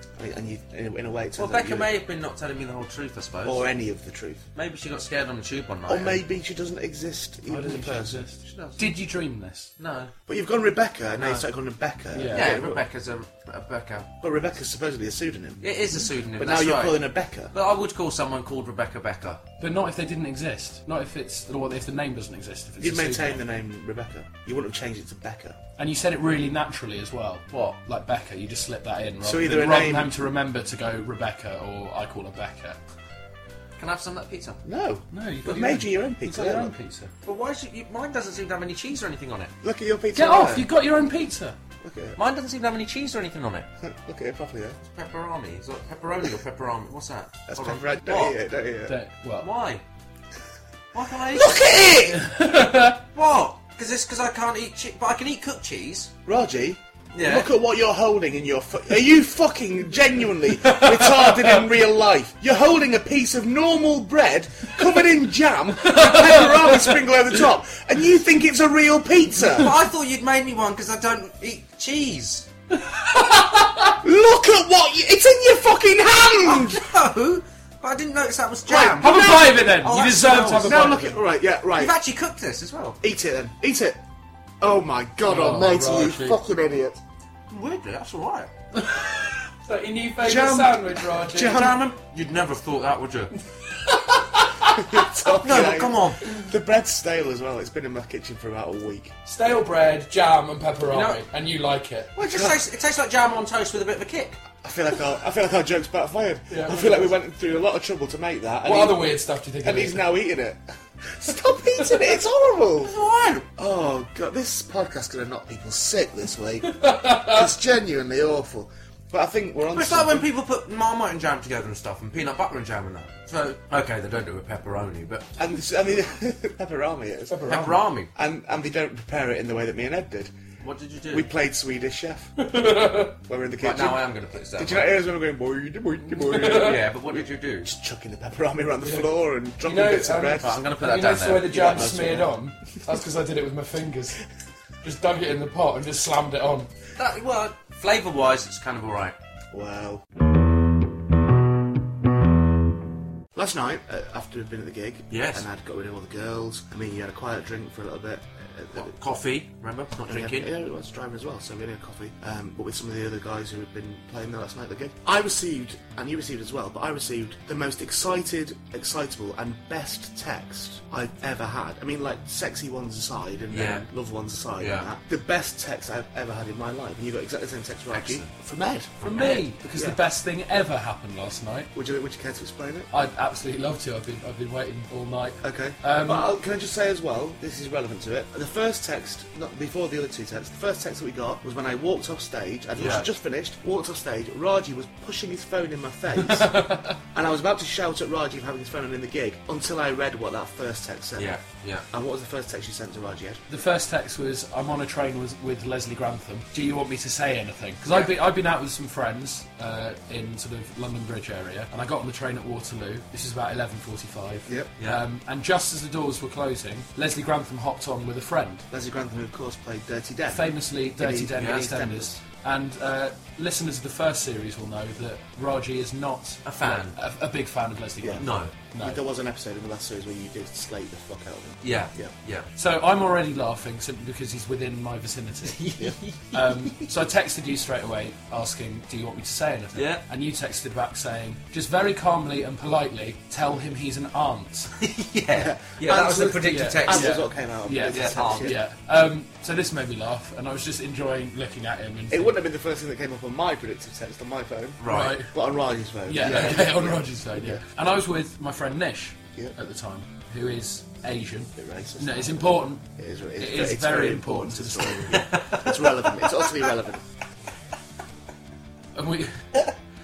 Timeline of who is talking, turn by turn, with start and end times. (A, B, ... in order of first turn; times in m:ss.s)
0:00.2-0:01.9 A
0:01.4-0:03.7 B
0:03.4-0:04.4 A
0:04.5-0:06.2 B
0:05.9-0:08.2 A
0:07.5-0:09.7 C
0:08.4-0:08.9 B
0:09.8-0:10.1 B
0:10.3-0:12.8 A
0:11.2-0:11.4 B
0:12.1-0:12.6 C
0:12.3-0:14.1 B
0:14.2-0:15.7 A
0:15.6-0:19.4 B
0:16.4-0:17.5 A
0:19.6-0:23.4 C
0:22.8-0:25.6 A
0:25.8-0:32.8 C
0:27.5-0:27.8 B
0:29.2-0:30.2 A
0:33.8-0:34.6 B
0:34.6-0:36.7 A
0:35.1-0:37.1 C
0:37.2-0:39.5 B
0:39.6-0:40.7 A
0:40.1-0:41.6 C
0:41.8-0:42.2 A
0:42.2-0:43.7 B
0:43.8-0:44.8 A
0:44.9-0:48.4 B
0:47.5-0:49.0 A
0:48.9-0:49.5 C
0:49.4-0:49.8 B
0:50.9-0:51.8 B
0:51.3-0:52.3 A
0:52.1-0:53.0 C
0:53.1-0:56.1 B
0:56.2-1:09.8 A
0:57.1-0:57.5 B
1:00.6-1:01.6 C
1:05.8-1:07.0 C
1:09.4-1:12.5 B
1:12.7-1:14.0 C
1:14.0-1:16.8 A
1:16.4-1:21.0 B
1:18.6-1:19.6 A
1:19.0-1:21.2 C
1:20.6-1:22.0 A
1:21.7-1:23.0 B
1:23.0-1:24.0 A
1:24.6-1:27.0 A
1:25.2-1:26.4 C
1:27.5-1:28.5 B
1:28.7-1:31.6 C
1:30.2-1:31.9 A
1:31.4-1:33.3 B
1:33.7-1:34.9 C
1:34.6-1:39.1 A
1:35.3-1:36.3 B
1:39.2-1:42.2 C
1:40.9-1:41.2 B
1:42.2-1:44.4 B
1:42.2-1:42.6 A
1:44.6-1:49.0 A
1:46.5-1:47.1 C
1:48.6-1:50.1 C
1:49.6-1:52.9 A
1:52.8-1:53.5 B
1:53.6-2:00.3 A
1:56.6-1:57.5 C
1:59.7-2:05.3 B
2:05.4-2:07.6 A
2:07.3-2:07.8 C
2:07.4-2:08.1 B
2:08.1-2:10.3 A
2:10.6-2:11.3 B
2:11.1-2:12.3 A
2:12.4-2:13.2 C
2:13.2-2:14.0 A
2:13.6-2:14.9 B
2:14.6-2:20.7 A
2:16.1-2:16.8 C
2:16.4-2:17.7 B
2:18.8-2:19.1 C
2:19.6-2:24.2 C
2:20.4-2:21.9 B
2:21.4-2:22.3 A
2:24.8-2:26.7 C
2:27.0-2:29.1 B
2:29.5-2:30.0 A
2:33.3-2:38.9 A
2:35.1-2:35.4 B
2:38.7-2:40.5 B
2:40.0-2:59.0 A
2:53.5-2:53.8 B
2:54.6-2:54.9 B
2:57.9-2:58.3 B
2:59.0-2:59.5 B
2:59.0-3:01.7 C
3:01.7-3:02.9 A
3:02.9-3:06.3 C
3:05.4-3:21.3 A
3:12.8-3:13.1 B
3:16.2-3:17.0 C
3:21.2-3:21.8 B
3:21.9-3:23.4 A
3:23.5-3:38.6 C
3:38.7-3:42.0 A
3:40.3-3:49.0 C
3:41.4-3:42.0 B
3:46.4-3:47.0 B
3:48.0-3:48.2 A
3:48.2-3:48.5 B
3:48.8-3:52.1 A
3:51.6-3:52.5 B
3:52.6-3:55.8 C
3:55.4-3:56.8 B
3:56.3-4:04.7 C
3:59.7-4:00.0 B
4:04.8-4:07.2 B
4:05.3-4:08.6 A
4:06.4-4:12.3 C
4:07.9-4:08.5 B
4:12.1-4:17.6 A
4:14.8-4:15.2 B
4:14.9-4:15.3 C
4:16.1-4:22.8 C
4:16.2-4:16.7 B
4:21.6-4:27.0 A
4:23.4-4:25.3 C
4:25.1-4:26.6 B
4:28.9-4:29.5 C